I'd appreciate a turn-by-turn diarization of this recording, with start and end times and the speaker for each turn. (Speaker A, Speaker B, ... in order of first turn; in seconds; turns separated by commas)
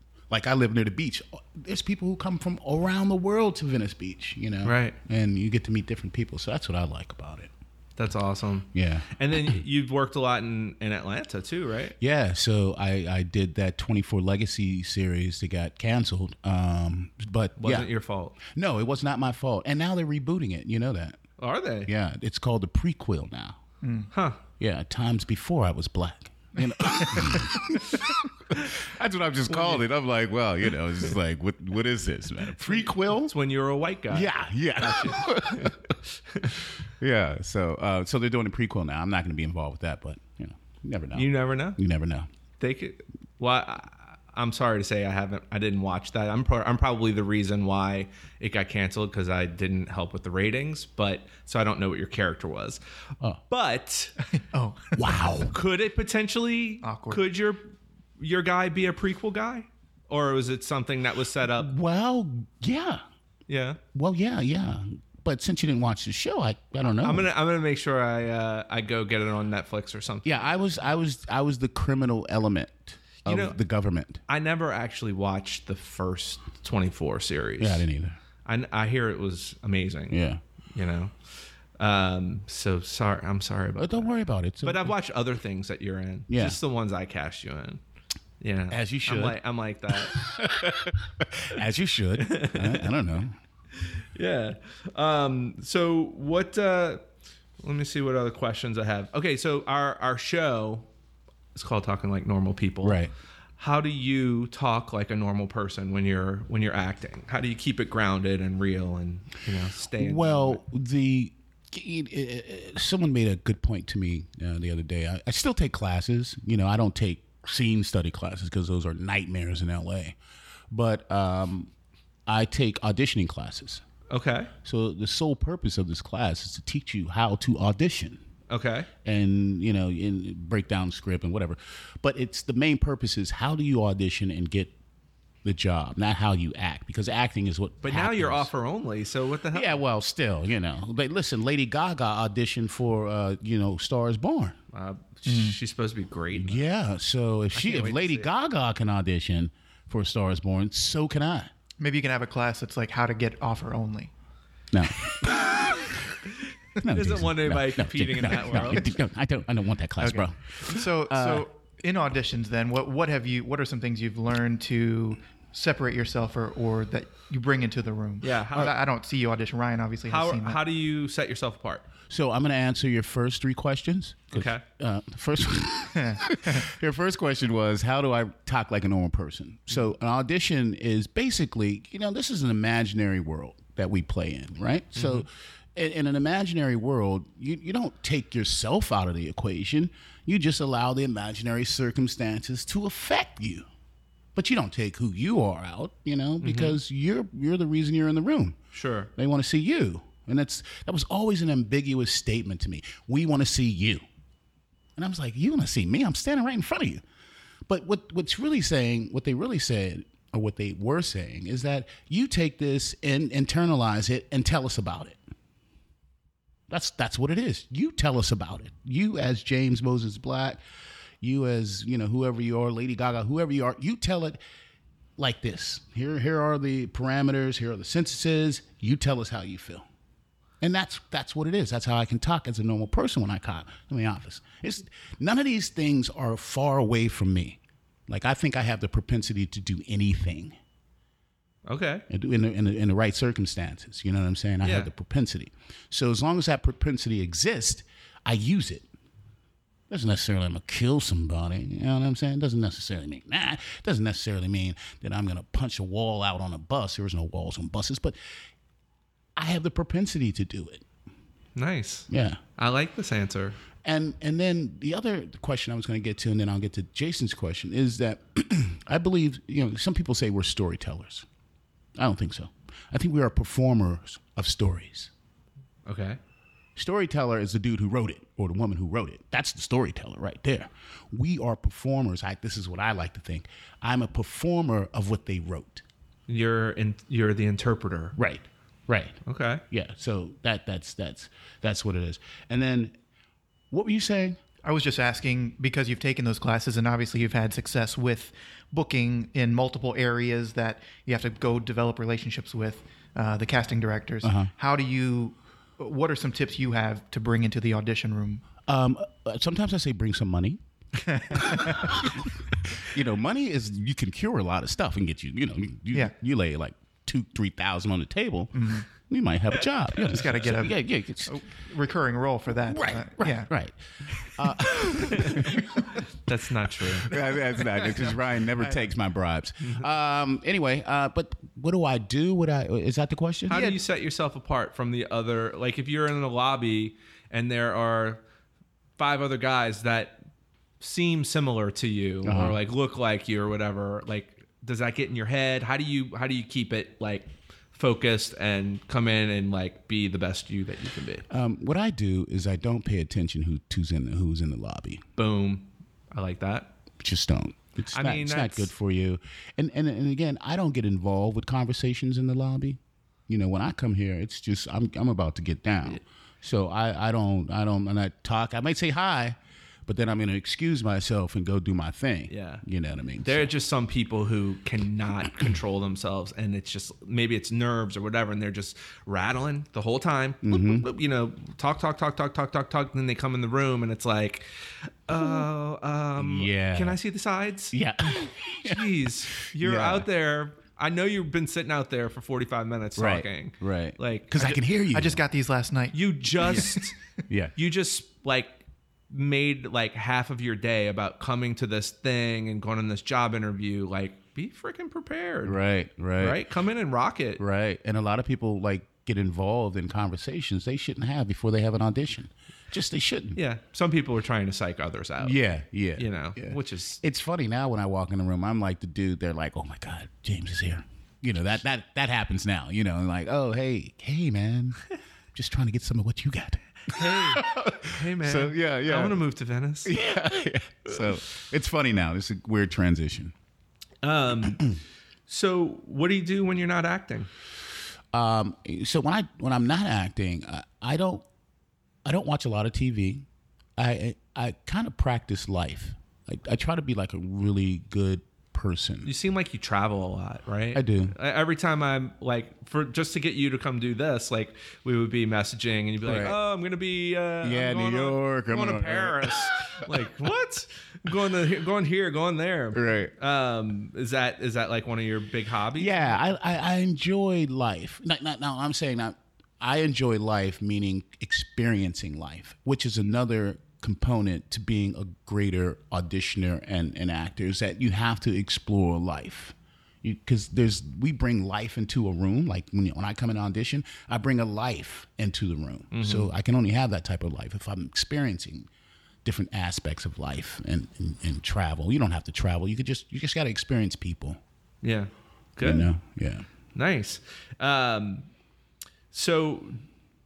Speaker A: 0.3-7.5, Speaker B: 4.6-5.0, Speaker B: 8.0-12.0, Speaker A: 8.7-9.5, Speaker A: 12.0-17.9, Speaker B: 17.6-18.4, Speaker A: 18.4-21.2, Speaker B: 21.4-21.9, Speaker A: 21.9-23.6, Speaker C: 23.8-24.1, Speaker B: 24.1-24.4, Speaker A: 24.6-33.3, Speaker B: 29.5-29.8, Speaker B: 32.6-36.6, Speaker A: 34.1-35.9, Speaker A: 36.9-42.3, Speaker B: 41.1-41.8, Speaker B: 42.6-52.8, Speaker B: 53.5-54.1, Speaker C: 54.4-55.1, Speaker A: 54.9-55.5, Speaker B: 55.3-61.7, Speaker C: 56.8-57.2, Speaker A: 61.5-63.0, Speaker B: 63.5-63.8, Speaker A: 63.9-67.3, Speaker B: 67.0-70.6, Speaker A: 70.2-74.2, Speaker B: 73.2-73.6, Speaker B: 74.3-77.8, Speaker A: 77.6-78.2, Speaker B: 78.4-80.2, Speaker A: 80.1-80.4, Speaker B: 80.7-81.1, Speaker B: 81.8-84.1, Speaker A: 83.8-84.9, Speaker B: 84.6-87.8, Speaker A: 86.3-86.6, Speaker B: 88.4-90.2, Speaker A: 88.7-89.4, Speaker A: 89.9-93.3, Speaker B: 92.2-92.9, Speaker B: 93.8-97.0, Speaker B: 97.6-100.9, Speaker B: 101.5-103.0, Speaker A: 102.8-103.1, Speaker B: 103.6-110.6, Speaker A: 110.0-120.2, Speaker A: 120.7-121.7, Speaker A: 122.3-123.8, Speaker B: 124.1-124.5, Speaker A: 124.6-128.2, Speaker B: 128.5-128.9, Speaker A: 129.0-134.7, Speaker A: 135.4-138.5, Speaker B: 137.8-139.8, Speaker A: 139.5-144.6, Speaker B: 144.7-146.6, Speaker C: 145.3-145.6, Speaker A: 146.3-151.5, Speaker B: 147.5-148.3, Speaker C: 151.8-154.1, Speaker A: 154.7-155.9, Speaker B: 156.2-158.8, Speaker A: 156.8-161.4, Speaker C: 160.0-170.6, Speaker B: 168.2-168.7, Speaker B: 170.1-171.8, Speaker A: 172.1-193.6, Speaker B: 174.3-174.6, Speaker C: 175.9-176.6, Speaker B: 184.9-185.2, Speaker A: 194.3-198.6, Speaker B: 196.4-196.8, Speaker B: 198.7-199.1, Speaker A: 199.2-204.0, Speaker A: 205.0-207.0, Speaker A: 207.7-215.2, Speaker A: 216.7-220.6, Speaker A: 221.2-224.4, Speaker A: 225.2-229.8, Speaker A: 230.6-240.5, Speaker B: 241.7-242.1, Speaker A: 242.1-248.9, Speaker B: 244.6-244.9, Speaker A: 249.9-258.1, Speaker A: 259.4-260.8, Speaker B: 261.6-263.6, Speaker A: 262.1-262.4, Speaker A: 263.8-271.2, Speaker A: 272.0-275.1, Speaker B: 275.9-276.2, Speaker A: 276.8-285.8, Speaker B: 286.3-288.1, Speaker A: 288.1-289.1, Speaker B: 289.2-289.6, Speaker A: 289.7-292.9, Speaker A: 293.7-294.4, Speaker C: 294.6-308.4, Speaker A: 304.2-304.5, Speaker A: 308.7-310.6, Speaker C: 311.0-312.1, Speaker A: 311.3-321.4, Speaker C: 318.5-318.9, Speaker C: 319.9-323.5, Speaker A: 322.7-325.9, Speaker B: 325.0-327.1, Speaker C: 325.2-325.8, Speaker A: 327.0-333.7, Speaker B: 333.5-338.2, Speaker B: 339.0-340.2, Speaker B: 340.8-351.2, Speaker A: 342.2-342.6, Speaker A: 351.3-355.0, Speaker B: 355.2-356.7, Speaker A: 357.0-373.5, Speaker B: 357.9-358.7, Speaker B: 372.3-372.6, Speaker B: 373.2-387.8, Speaker A: 380.4-380.9, Speaker A: 385.1-385.5, Speaker A: 386.2-387.0, Speaker A: 387.7-390.1, Speaker B: 388.6-394.5, Speaker A: 393.0-395.2, Speaker C: 394.4-396.9, Speaker B: 395.9-396.9, Speaker B: 397.6-405.6, Speaker A: 405.4-406.4, Speaker B: 406.2-407.4, Speaker A: 407.4-413.4, Speaker B: 413.3-415.4, Speaker A: 415.2-424.8, Speaker B: 416.0-417.0, Speaker A: 425.3-429.2, Speaker B: 426.9-430.0, Speaker A: 429.8-433.3, Speaker B: 434.0-434.8, Speaker B: 435.3-437.3, Speaker A: 438.1-441.2, Speaker A: 442.0-443.2, Speaker A: 443.8-449.1, Speaker B: 449.0-466.2, Speaker A: 450.7-451.1, Speaker A: 456.0-456.4, Speaker A: 457.4-459.9, Speaker A: 462.7-463.1, Speaker A: 465.8-488.7, Speaker B: 485.9-486.3, Speaker A: 489.2-494.4, Speaker B: 494.8-495.9, Speaker A: 495.6-496.4, Speaker B: 496.7-498.3, Speaker B: 499.1-499.8